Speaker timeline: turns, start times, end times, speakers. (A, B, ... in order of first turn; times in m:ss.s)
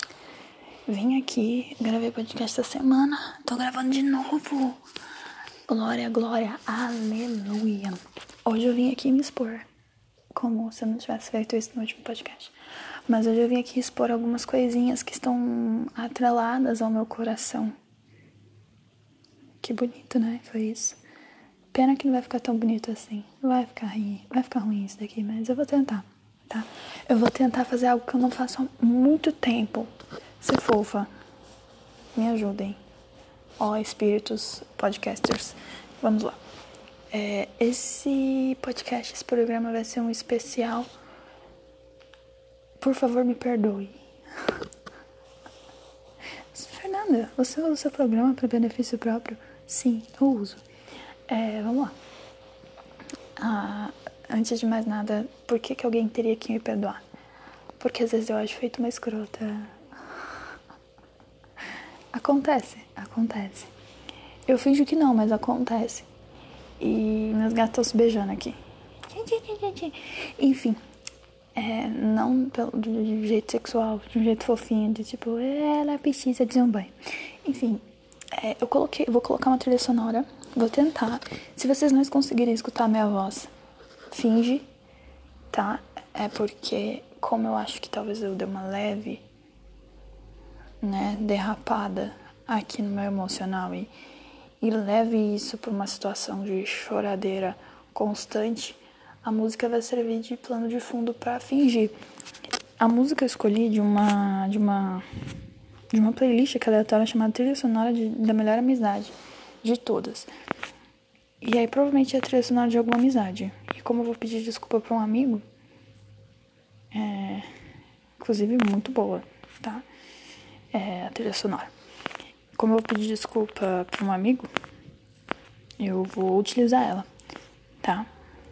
0:00.9-0:04.8 A
0:05.7-0:09.7 A
0:10.3-0:12.5 A
0:13.1-0:17.7 A
0:19.6-0:21.0 A
0:21.7-0:31.1 A
0:32.2-0:32.8 A
0:33.6-0:36.4 A
0:37.1-0:40.9 A
0:42.8-0:44.6 A
0:46.5-0:50.6 A
0:51.3-0:52.0 A
0:53.4-0:57.0 A
0:57.8-1:00.4 A
1:02.1-1:03.7 A
1:04.5-1:06.1 A
1:06.8-1:08.6 A
1:09.1-1:10.8 A
1:11.6-1:23.5 A
1:24.1-1:24.7 A
1:25.5-1:29.2 A
1:30.8-1:33.9 A
1:34.6-1:42.0 A
1:42.8-1:45.1 A
1:45.9-1:50.3 A
1:51.4-1:55.4 A
1:56.9-1:57.5 A
1:58.2-1:59.9 A
2:00.7-2:01.7 A
2:02.6-2:04.5 A
2:05.8-2:07.1 A
2:07.8-2:08.1 A